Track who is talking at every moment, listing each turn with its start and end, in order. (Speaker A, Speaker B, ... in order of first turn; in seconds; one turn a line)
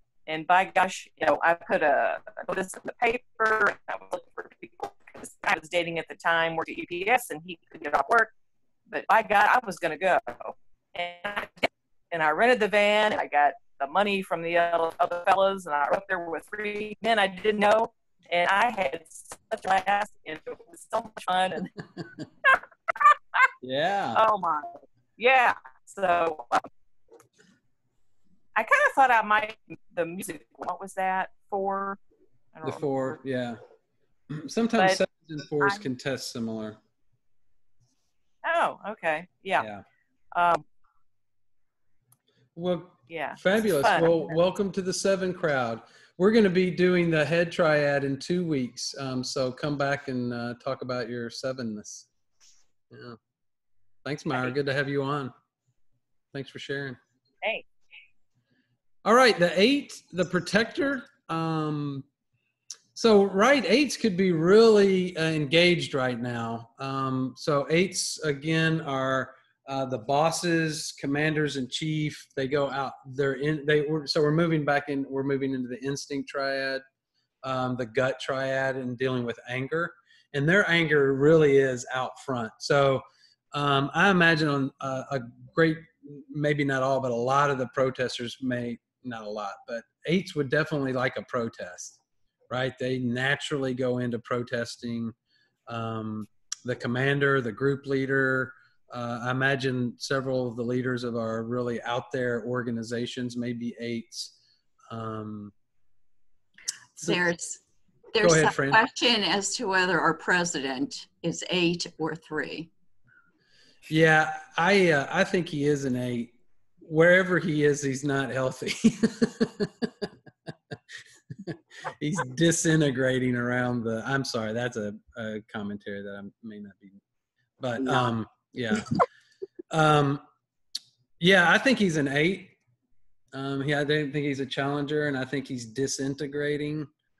Speaker A: 0.3-8.3
Speaker A: 8.9-21.7
Speaker B: 23.6-24.2
Speaker A: 24.1-26.6
Speaker A: 28.5-32.0
Speaker A: 32.5-33.2
Speaker B: 32.6-33.6
Speaker B: 34.3-36.8
Speaker A: 35.6-35.8
Speaker A: 38.4-39.7
Speaker B: 39.6-39.8
Speaker A: 40.3-40.6
Speaker B: 42.5-52.1
Speaker A: 43.1-44.4
Speaker B: 52.9-53.2
Speaker B: 54.0-55.3
Speaker B: 56.3-57.0
Speaker B: 59.0-62.0
Speaker B: 62.9-76.8
Speaker B: 77.4-92.0
Speaker B: 92.5-95.1
Speaker B: 95.7-104.3
Speaker B: 104.9-105.5
Speaker C: 107.0-107.6
Speaker C: 108.1-112.7
Speaker B: 108.2-108.8
Speaker B: 113.9-120.1
Speaker B: 121.5-127.0
Speaker B: 127.6-128.9
Speaker B: 129.7-130.2
Speaker B: 131.2-132.5
Speaker B: 133.3-136.9